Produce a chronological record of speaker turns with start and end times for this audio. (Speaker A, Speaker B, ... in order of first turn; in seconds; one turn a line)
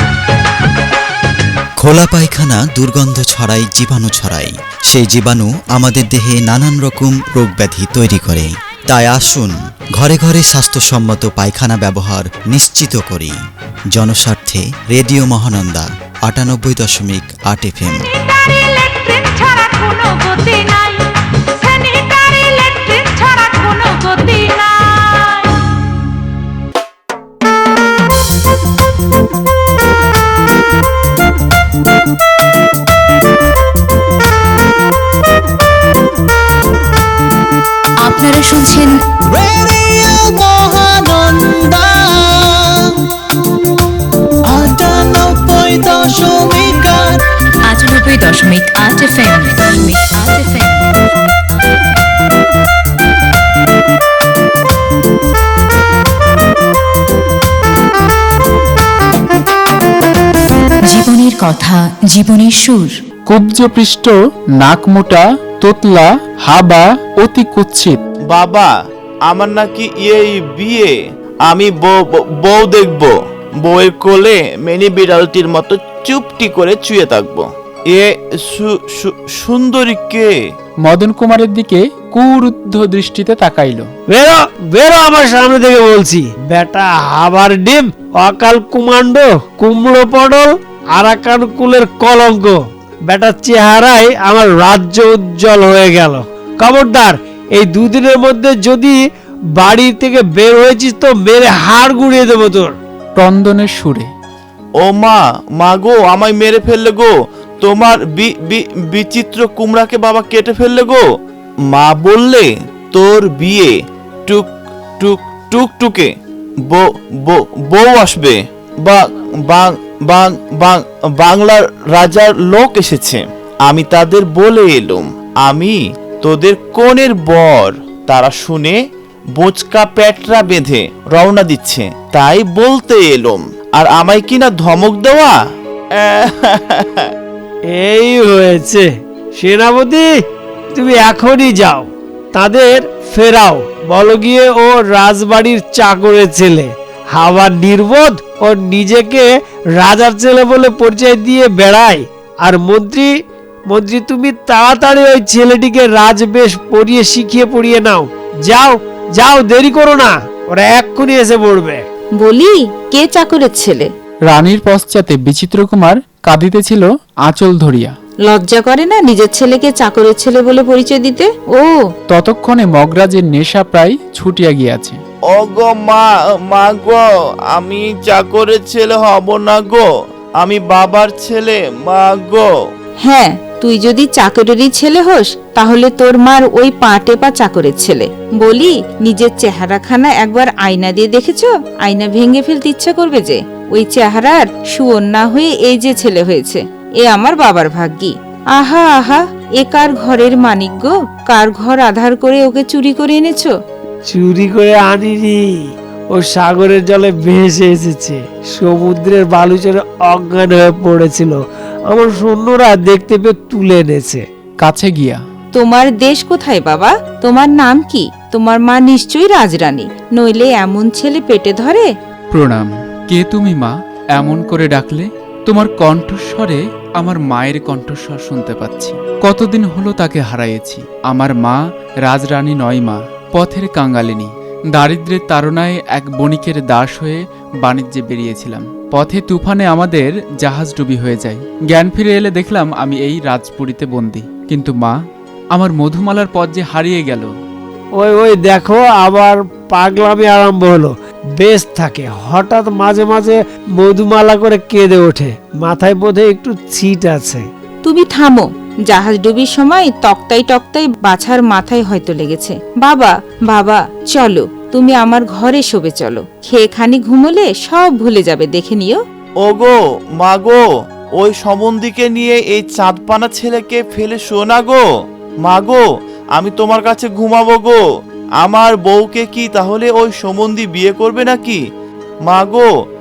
Speaker A: 1.8-13.3
Speaker A: 13.9-18.0
Speaker B: 18.2-21.0
Speaker B: 21.6-25.5
Speaker C: 38.0-39.0
Speaker D: 39.4-42.9
Speaker D: 44.5-47.2
Speaker C: 47.6-50.9
Speaker C: 60.8-62.9
Speaker E: 63.3-68.0
Speaker F: 68.3-68.7
Speaker F: 69.2-70.9
Speaker F: 71.5-80.3
Speaker E: 80.8-83.9
Speaker G: 84.1-99.0
Speaker G: 99.5-102.8
Speaker E: 103.2-104.1
Speaker F: 104.8-111.0
Speaker F: 111.7-113.7
Speaker F: 115.0-116.1
Speaker F: 116.7-128.8
Speaker F: 129.3-135.3
Speaker F: 135.9-137.1
Speaker G: 137.7-138.8
Speaker G: 139.4-140.1
Speaker G: 140.7-149.3
Speaker G: 149.8-153.1
Speaker G: 153.7-161.8
Speaker B: 162.2-163.9
Speaker E: 164.3-167.9
Speaker B: 168.2-171.7
Speaker E: 172.1-175.0
Speaker F: 175.3-179.8
Speaker F: 180.4-182.4
Speaker B: 183.0-203.5
Speaker G: 204.1-205.6
Speaker G: 206.1-214.2
Speaker E: 214.6-215.2
Speaker B: 215.5-221.9
Speaker E: 222.3-244.9
Speaker E: 245.5-247.3
Speaker G: 247.9-257.4
Speaker B: 257.8-269.0
Speaker F: 269.4-270.6
Speaker F: 271.2-274.8
Speaker F: 275.4-275.8
Speaker F: 276.3-277.8
Speaker F: 278.4-281.6
Speaker F: 282.3-282.7